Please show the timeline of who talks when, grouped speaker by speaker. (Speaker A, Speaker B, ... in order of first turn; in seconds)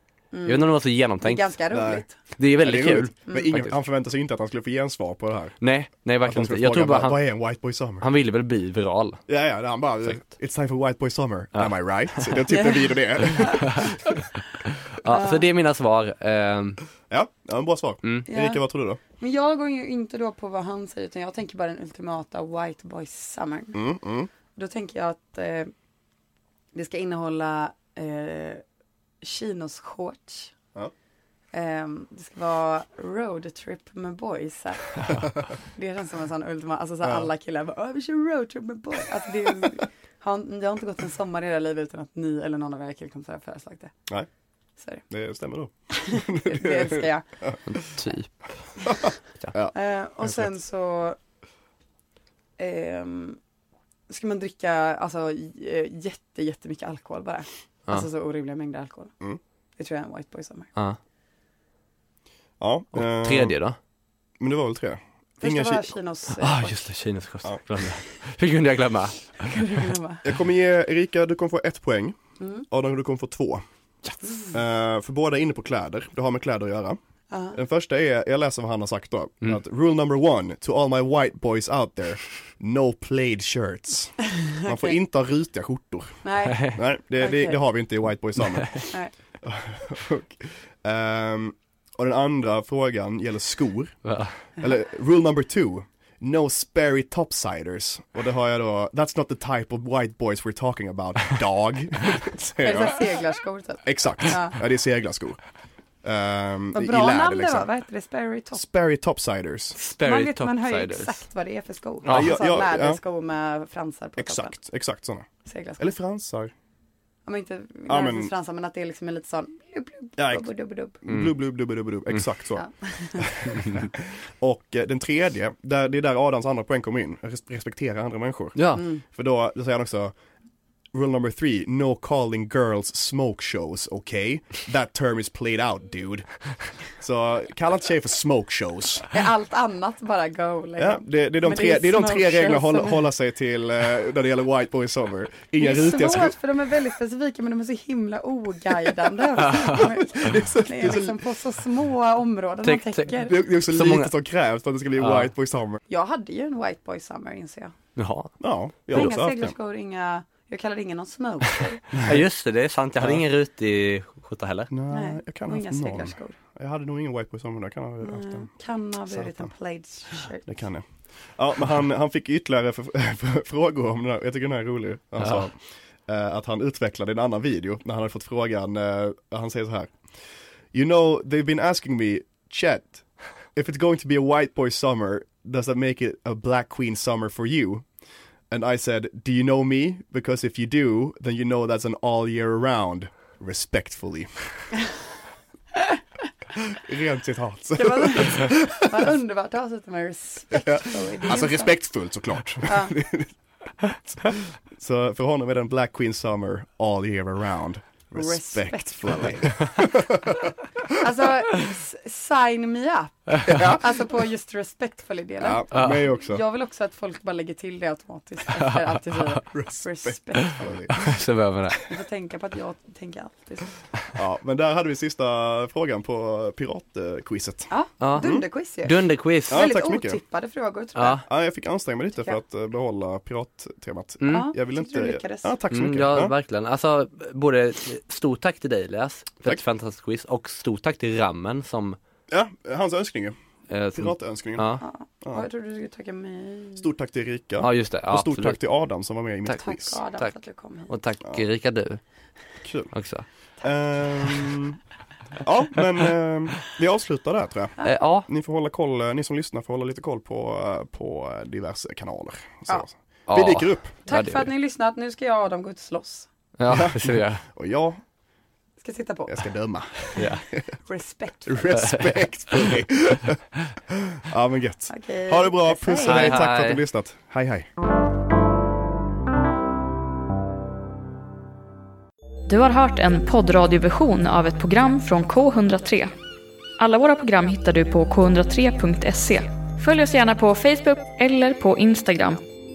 Speaker A: 0.3-2.1, 15.1-15.4, 18.3-18.6, 19.1-23.8, 24.5-25.7, 26.7-28.6, 29.2-30.5, 31.5-35.0, 35.6-43.9, 44.8-45.0, 45.9-47.2, 49.7-51.2, 52.6-53.4, 54.1-59.1, 59.8-60.7, 65.4-66.8, 69.4-70.2, 72.4-72.6, 74.2-74.5, 77.3-77.6, 84.6-84.9, 86.2-87.6, 102.6-104.5, 106.7-108.6, 110.0-114.5, 115.4-115.9, 117.2-121.0, 122.5-123.3, 128.8-129.0, 139.1-143.1, 145.6-153.4, 155.9-157.7, 158.9-161.8, 164.9-166.4, 168.0-170.4, 197.8-201.8, 202.6-202.9, 208.1-209.6, 210.9-221.0, 221.8-223.7, 227.7-228.9, 229.5-231.2, 234.2-235.5, 244.8-246.9, 249.6-250.9, 264.1-266.3, 268.8-269.5, 270.1-271.6, 274.9-276.4
Speaker B: 0.5-1.5, 2.4-3.7, 5.6-7.3, 8.0-9.2, 13.3-16.8, 47.7-48.5, 62.9-63.8, 66.4-69.8, 88.5-88.8, 94.0-94.3, 109.8-111.2, 112.0-112.3, 121.1-121.3, 128.5-128.8, 152.6-154.1, 155.0-155.3, 157.9-158.4, 161.9-164.7, 215.7-216.1, 221.0-221.8, 228.0-229.6, 230.9-231.2, 234.2-234.5, 235.7-242.0, 243.7-244.8, 247.6-248.6, 250.9-252.0, 252.9-253.2, 257.8-258.3, 263.3-264.5, 266.6-267.4, 271.7-272.1, 276.0-276.8
Speaker C: 1.7-2.0, 2.6-5.6, 6.2-8.0, 9.3-13.9, 17.1-19.0, 23.7-24.3, 37.0-37.3, 45.1-47.9, 48.9-50.5, 62.6-63.5, 64.4-65.9, 70.2-72.2, 72.7-73.6, 74.5-77.0, 77.5-103.0, 103.8-105.4, 106.0-107.7, 108.5-109.8, 112.0-113.0, 114.2-115.3, 115.8-116.5, 117.9-118.3, 120.2-120.5, 121.0-130.1, 130.9-139.1, 140.8-146.3, 149.7-151.2, 153.3-155.8, 158.4-159.5, 161.9-162.2, 164.7-168.5, 169.1-169.5, 170.4-180.1, 180.7-187.8, 188.5-194.7, 196.7-199.1, 200.5-203.3, 204.7-210.9, 213.4-213.8, 215.4-216.4, 219.5-221.1, 224.1-228.4, 229.5-230.2, 231.2-236.3, 242.3-243.3, 243.9-244.7, 246.8-250.0, 252.6-252.9, 253.6-254.8, 255.4-263.9, 266.7-268.0, 269.3-270.6, 271.4-277.7
Speaker D: 282.5-286.1, 286.8-292.4